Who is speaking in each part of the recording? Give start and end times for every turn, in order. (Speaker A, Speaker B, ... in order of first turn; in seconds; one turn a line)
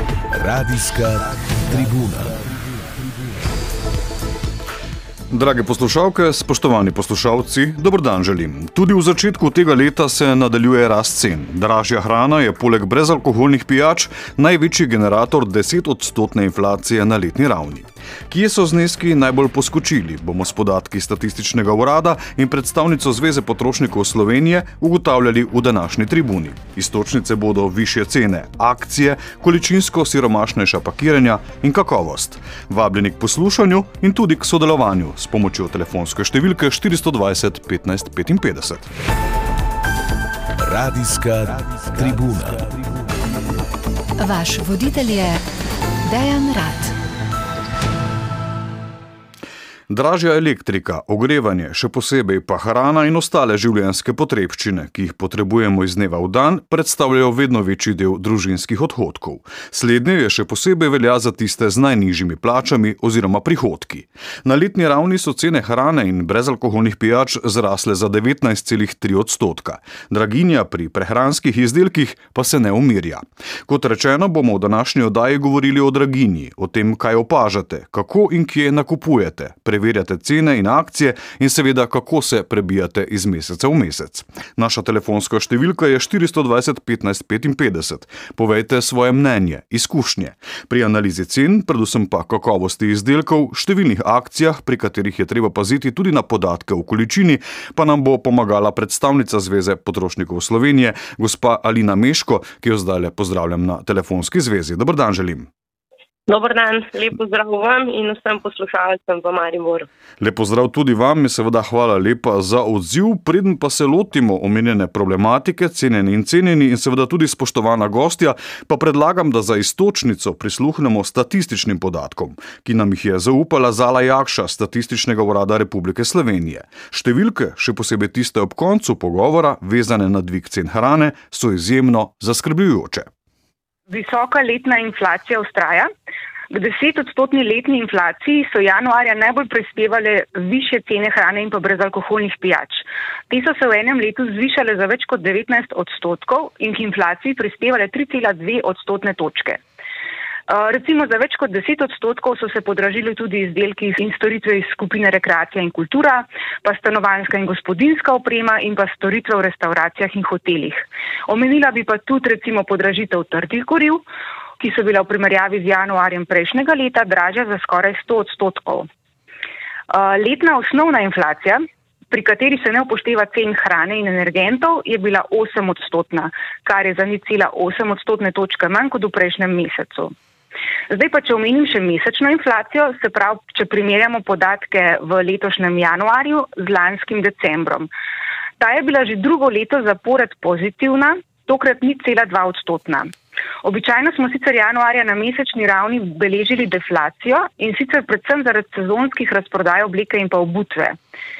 Speaker A: 0.3-2.4
Speaker B: 5.3-38.9
Speaker A: 40.6-43.0
Speaker C: 44.2-45.4
Speaker C: 46.0-46.9
Speaker B: 49.9-105.5
Speaker D: 106.3-109.9
Speaker B: 110.2-133.1
Speaker E: 133.9-135.9
Speaker E: 136.5-149.6
Speaker E: 150.5-164.0
Speaker E: 164.6-168.9
Speaker E: 169.9-180.1
Speaker E: 180.9-187.9
Speaker E: 188.6-193.1
Speaker E: 193.6-201.0